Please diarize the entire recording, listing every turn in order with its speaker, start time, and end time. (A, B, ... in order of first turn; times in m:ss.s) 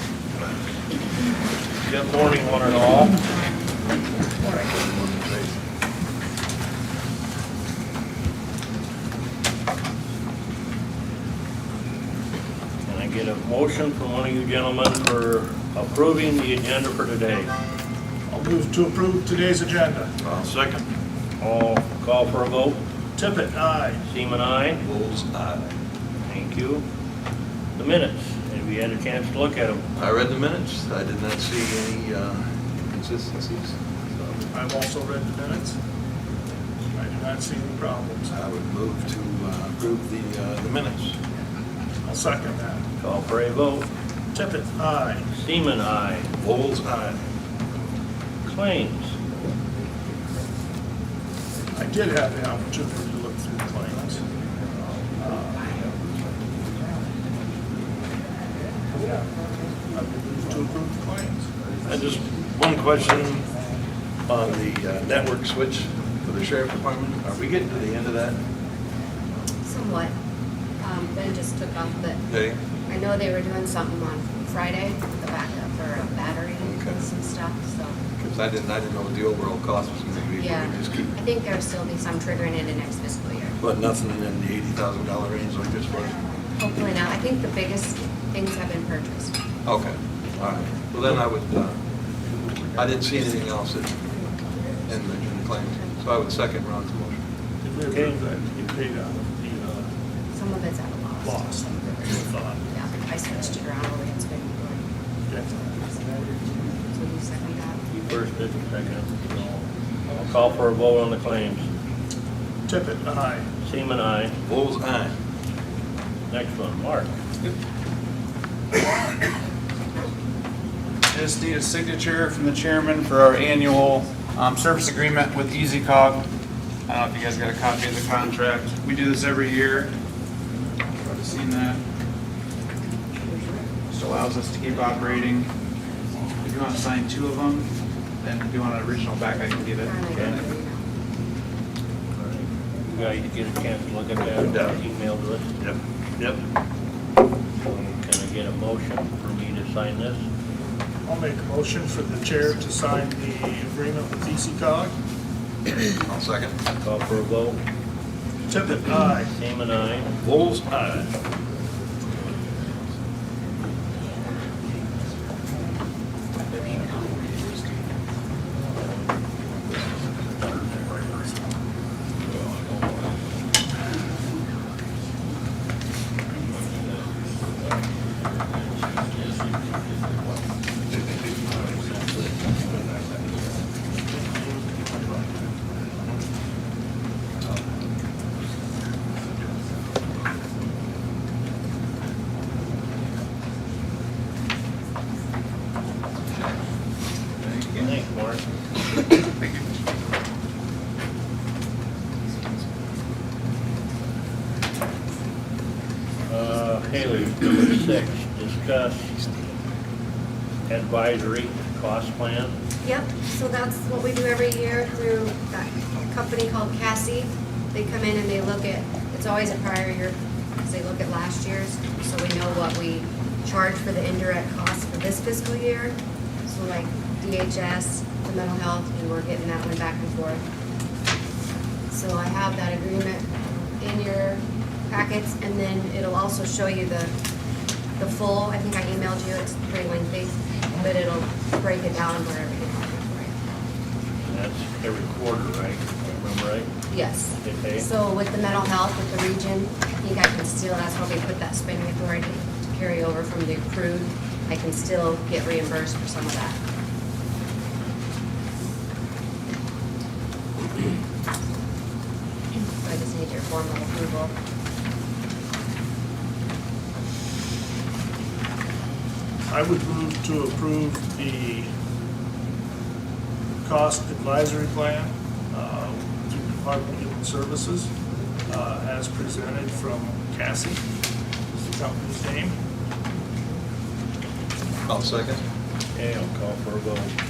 0:01.8-0:03.2 A
0:04.4-0:05.6 B
0:12.8-0:17.5 A
0:18.3-0:20.1 C
0:20.2-0:20.9 B
0:21.4-0:22.8 A
0:23.2-0:24.0 C
0:24.0-0:24.8 A
0:24.8-0:25.6 B
0:26.3-0:26.8 A
0:27.8-0:29.8 A
0:30.0-0:34.4 B
0:34.5-0:35.8 C
0:36.9-0:38.3 C
0:38.3-0:41.2 B
0:42.0-0:42.8 C
0:43.0-0:43.9 A
0:44.3-0:45.3 C
0:45.4-0:46.3 A
0:46.4-0:47.2 B
0:48.5-0:49.1 A
0:51.7-0:54.2 C
0:55.2-0:55.7 C
0:59.9-1:01.5 C
1:01.8-1:03.5 B
1:04.3-1:08.4 B
1:09.7-1:10.1 D
1:10.8-1:12.2 D
1:12.3-1:12.6 B
1:12.9-1:18.0 D
1:16.6-1:17.0 B
1:18.2-1:21.1 B
1:20.4-1:23.6 D
1:23.6-1:26.2 B
1:26.6-1:29.3 D
1:29.6-1:31.8 B
1:32.8-1:34.0 B
1:34.9-1:37.2 B
1:37.6-1:39.9 C
1:37.9-1:38.2 A
1:40.3-1:42.2 D
1:41.2-1:42.6 C
1:42.7-1:44.9 D
1:45.3-1:45.6 C
1:45.5-1:46.0 D
1:46.9-1:47.8 D
1:47.9-1:49.6 A
1:50.2-1:51.7 A
1:52.7-1:53.5 C
1:53.6-1:54.3 A
1:54.4-1:55.1 B
1:56.3-1:57.1 A
2:01.1-2:06.2 E
2:06.9-2:09.9 E
2:11.0-2:11.8 E
2:13.2-2:13.8 D
2:13.9-2:15.5 E
2:16.4-2:20.4 E
2:19.8-2:20.9 D
2:22.2-2:25.6 A
2:24.4-2:24.8 B
2:25.6-2:26.4 B
2:27.6-2:30.2 A
2:31.0-2:34.9 C
2:36.0-2:36.6 B
2:36.8-2:37.6 A
2:38.5-2:39.3 C
2:39.3-2:40.1 A
2:40.2-2:41.0 B
3:17.4-3:17.9 E
3:17.8-3:18.4 A
3:26.3-3:29.2 A
3:30.7-3:32.6 A
3:32.8-3:50.4 D
3:51.9-3:57.1 D
3:58.0-4:03.3 D
4:04.2-4:06.7 A
4:06.9-4:16.6 D
4:07.4-4:07.9 A
4:22.8-4:24.3 D
4:29.5-4:31.7 C
4:33.6-4:37.9 C
4:38.5-4:40.8 C
4:41.5-4:42.6 C
4:44.9-4:45.4 B
4:46.0-4:47.1 A